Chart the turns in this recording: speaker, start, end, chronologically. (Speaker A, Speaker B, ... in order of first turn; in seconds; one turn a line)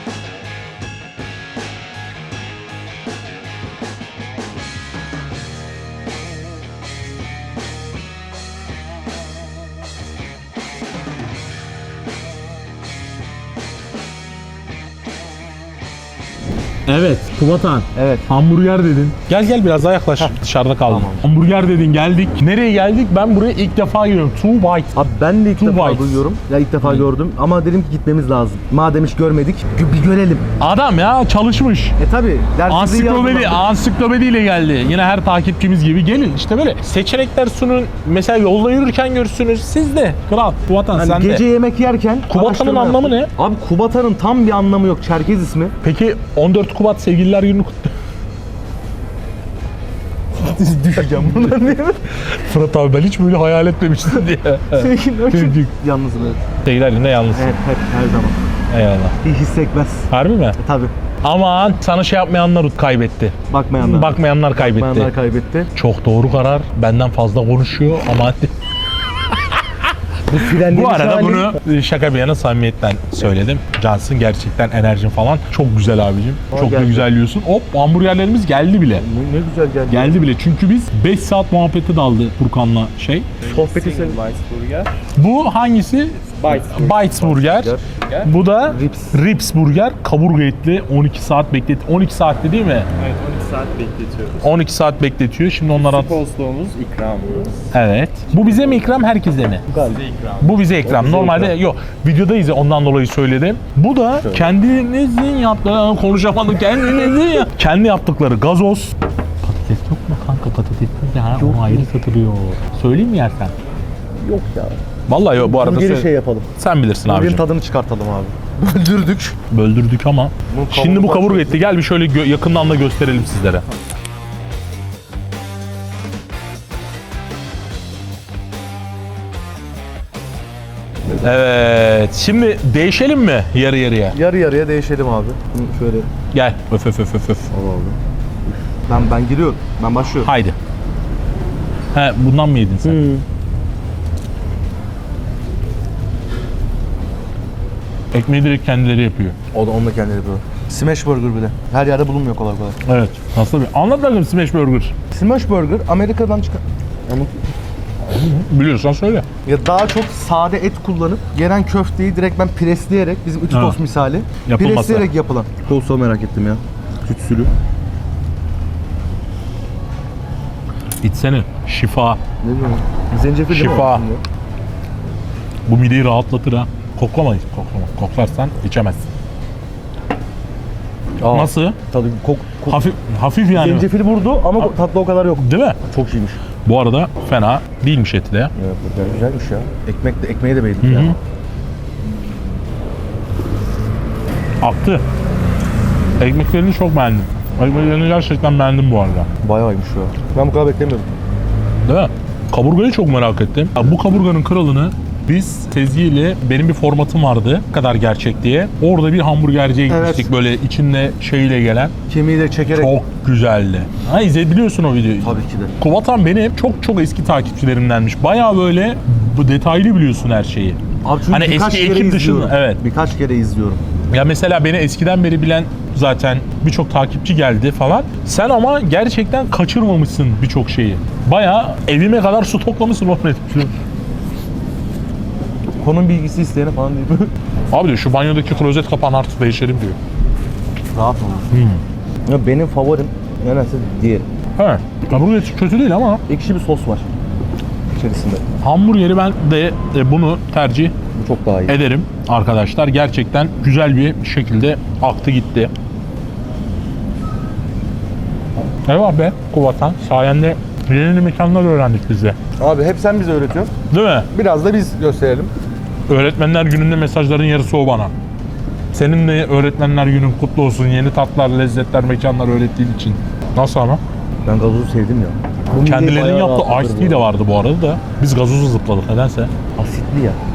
Speaker A: 16.9-25.0
Speaker B: 17.9-18.3
Speaker B: 20.9-21.3
Speaker B: 24.9-30.4
Speaker A: 25.6-26.2
Speaker A: 30.6-32.0
Speaker B: 32.0-33.6
Speaker A: 32.7-41.4
Speaker B: 40.9-45.7
Speaker A: 42.3-43.3
Speaker A: 45.8-47.9
Speaker B: 50.3-52.0
Speaker A: 52.1-55.7
Speaker B: 54.7-56.4
Speaker A: 56.6-57.5
Speaker B: 57.3-58.5
Speaker A: 58.7-59.2
Speaker B: 59.2-60.9
Speaker A: 60.1-60.6
Speaker A: 61.2-65.1
Speaker B: 63.5-65.7
Speaker A: 65.7-68.5
Speaker A: 69.3-79.0
Speaker B: 70.3-71.6
Speaker B: 76.5-77.1
Speaker B: 79.0-80.2
Speaker A: 79.9-83.3
Speaker C: 83.4-85.0
Speaker B: 83.4-84.2
Speaker A: 85.2-92.9
Speaker C: 86.4-86.9
Speaker B: 86.5-88.0
Speaker B: 88.6-89.2
Speaker C: 93.0-94.4
Speaker A: 94.4-96.2
Speaker C: 95.8-97.6
Speaker A: 97.7-99.6
Speaker B: 99.7-100.1
Speaker C: 99.7-100.4
Speaker A: 100.4-113.5
Speaker B: 100.8-101.5
Speaker B: 104.1-104.5
Speaker B: 111.3-111.9
Speaker B: 114.2-114.8
Speaker A: 115.1-117.4
Speaker B: 115.3-116.5
Speaker B: 117.0-119.4
Speaker A: 119.5-123.6
Speaker B: 120.5-121.6
Speaker A: 131.2-134.2
Speaker B: 134.1-136.1
Speaker A: 136.3-137.5
Speaker B: 137.5-138.0
Speaker B: 138.9-140.3
Speaker A: 140.2-140.6
Speaker A: 141.9-143.0
Speaker B: 142.8-143.2
Speaker A: 148.1-149.4
Speaker B: 149.5-152.8
Speaker A: 152.8-154.9
Speaker B: 155.1-157.4
Speaker A: 158.1-159.2
Speaker B: 159.4-167.5
Speaker A: 163.5-163.8
Speaker A: 164.4-165.1
Speaker A: 171.0-172.2
Speaker B: 172.4-174.2
Speaker A: 173.5-174.0
Speaker A: 175.7-179.1
Speaker B: 181.2-182.8
Speaker A: 181.3-181.8
Speaker A: 182.7-183.9
Speaker B: 183.5-186.4
Speaker A: 185.4-185.8
Speaker A: 186.6-188.5
Speaker B: 188.6-191.2
Speaker A: 190.8-191.2
Speaker A: 194.6-195.0
Speaker A: 196.2-199.3
Speaker B: 199.4-201.1
Speaker A: 201.8-211.9
Speaker B: 209.9-210.3
Speaker B: 212.1-213.0
Speaker A: 212.7-222.8
Speaker B: 215.2-215.7
Speaker B: 221.0-223.8
Speaker A: 224.1-233.7
Speaker B: 235.8-237.3
Speaker A: 237.7-240.0
Speaker B: 240.9-241.5
Speaker A: 241.5-241.8
Speaker B: 242.2-244.3
Speaker A: 244.6-246.2
Speaker B: 246.3-247.1
Speaker B: 247.9-248.4
Speaker A: 248.6-250.9
Speaker B: 251.1-251.8
Speaker A: 251.7-255.7
Speaker A: 258.9-262.4
Speaker B: 262.6-263.7
Speaker A: 263.9-264.3
Speaker B: 264.3-265.5
Speaker A: 266.1-268.1
Speaker A: 268.9-274.0
Speaker B: 274.4-277.3
Speaker A: 275.8-279.5
Speaker B: 279.8-280.4